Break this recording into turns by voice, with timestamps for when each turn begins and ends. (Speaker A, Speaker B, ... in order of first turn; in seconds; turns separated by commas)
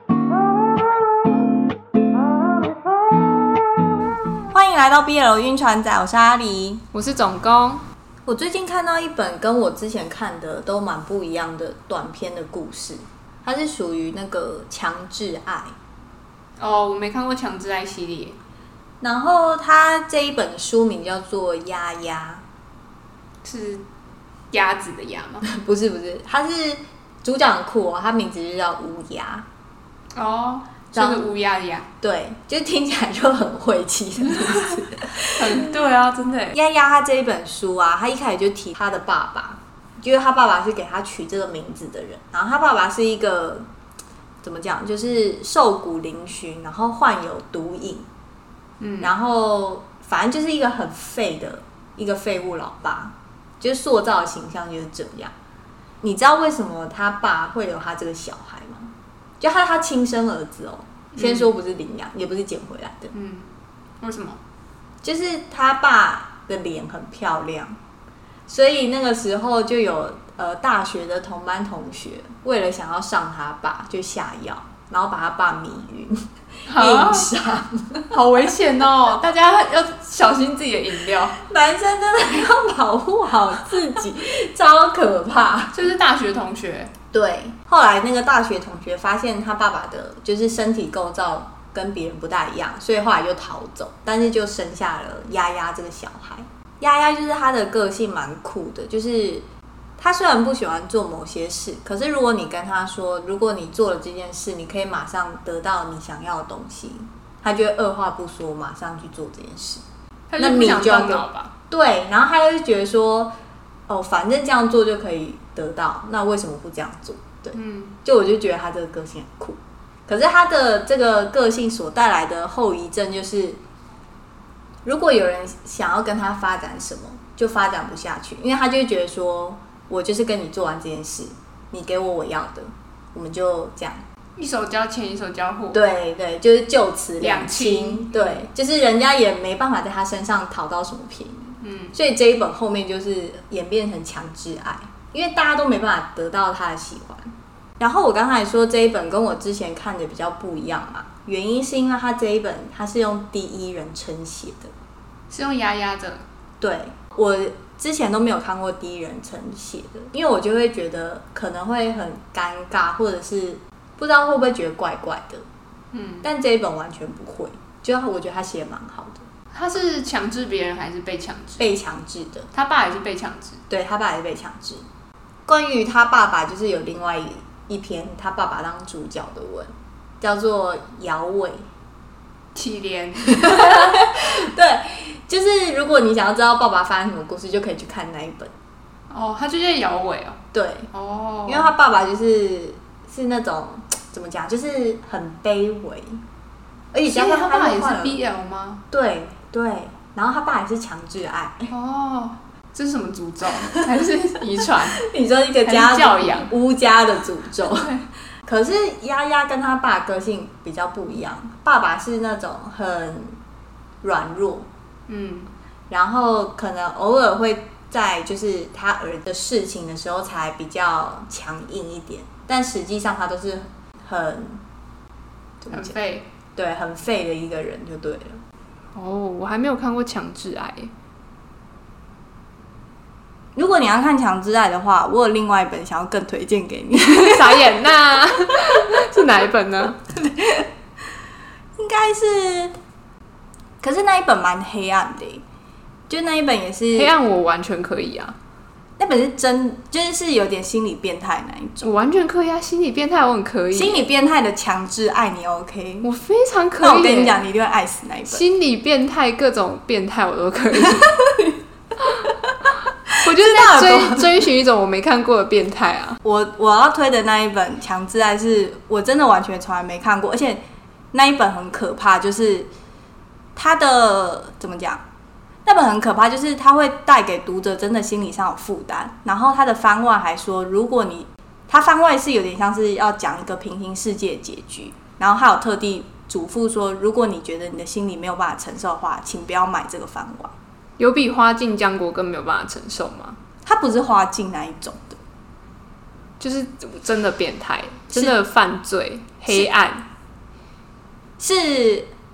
Speaker A: 4.5-6.8, Speaker B: 6.9-7.8, Speaker A: 8.3-15.7, Speaker B: 16.6-18.4, Speaker A: 19.0-22.4, Speaker B: 23.4-23.9, Speaker B: 24.5-25.4, Speaker A: 25.5-29.5, Speaker B: 30.2-31.9, Speaker A: 30.9-31.3, Speaker A: 32.0-35.7, Speaker B: 35.4-36.6, Speaker A: 36.5-43.6, Speaker A: 44.4-48.1, Speaker B: 48.8-49.1, Speaker A: 49.0-55.3, Speaker A: 56.0-63.1, Speaker B: 61.1-61.5, Speaker B: 63.1-63.5, Speaker B: 64.0-64.4, Speaker A: 65.0-67.8, Speaker A: 68.5-76.2, Speaker B: 76.7-77.3, Speaker A: 76.7-78.1, Speaker B: 78.1-81.4, Speaker A: 81.4-85.8, Speaker B: 85.7-86.9, Speaker A: 87.1-99.4, Speaker A: 100.0-109.8, Speaker B: 110.3-111.5, Speaker A: 110.4-113.3, Speaker A: 113.9-123.6, Speaker B: 117.5-118.0, Speaker A: 124.8-134.0, Speaker B: 134.4-135.8, Speaker A: 135.7-154.7, Speaker B: 137.2-138.5, Speaker B: 141.6-142.0, Speaker B: 155.3-156.2, Speaker A: 156.6-165.4, Speaker B: 165.9-166.3, Speaker A: 166.2-169.2, Speaker B: 169.5-171.7, Speaker A: 171.6-172.5, Speaker B: 172.5-173.6, Speaker A: 173.7-174.8, Speaker A: 175.5-181.6, Speaker B: 182.6-184.0, Speaker A: 183.3-188.5, Speaker B: 189.1-190.4, Speaker A: 190.5-190.9, Speaker B: 190.9-191.7, Speaker A: 191.5-196.2, Speaker A: 196.9-198.2, Speaker B: 197.1-198.8, Speaker A: 198.9-201.7, Speaker B: 201.7-205.1, Speaker A: 205.0-207.9, Speaker B: 205.6-206.5, Speaker B: 207.6-208.0, Speaker A: 208.5-213.4, Speaker A: 214.0-214.7, Speaker B: 215.1-215.5, Speaker A: 215.9-224.6, Speaker A: 225.6-226.0, Speaker B: 225.7-226.3, Speaker A: 226.6-228.4, Speaker B: 228.9-230.9, Speaker A: 233.6-237.8, Speaker B: 237.0-240.0, Speaker A: 240.1-240.7, Speaker A: 241.8-242.8, Speaker A: 243.8-245.4, Speaker A: 246.1-247.1, Speaker B: 246.9-248.4, Speaker A: 249.0-251.9, Speaker B: 251.8-254.0, Speaker A: 253.7-256.1, Speaker B: 256.0-257.4, Speaker A: 256.8-258.4, Speaker B: 258.3-261.2, Speaker A: 261.0-261.4, Speaker B: 263.2-266.2, Speaker A: 263.2-264.3, Speaker A: 266.2-270.6, Speaker A: 271.1-272.7, Speaker A: 273.6-275.0, Speaker A: 275.6-290.5, Speaker B: 291.0-293.4, Speaker A: 293.6-295.2, Speaker B: 296.4-300.1, Speaker A: 301.4-302.1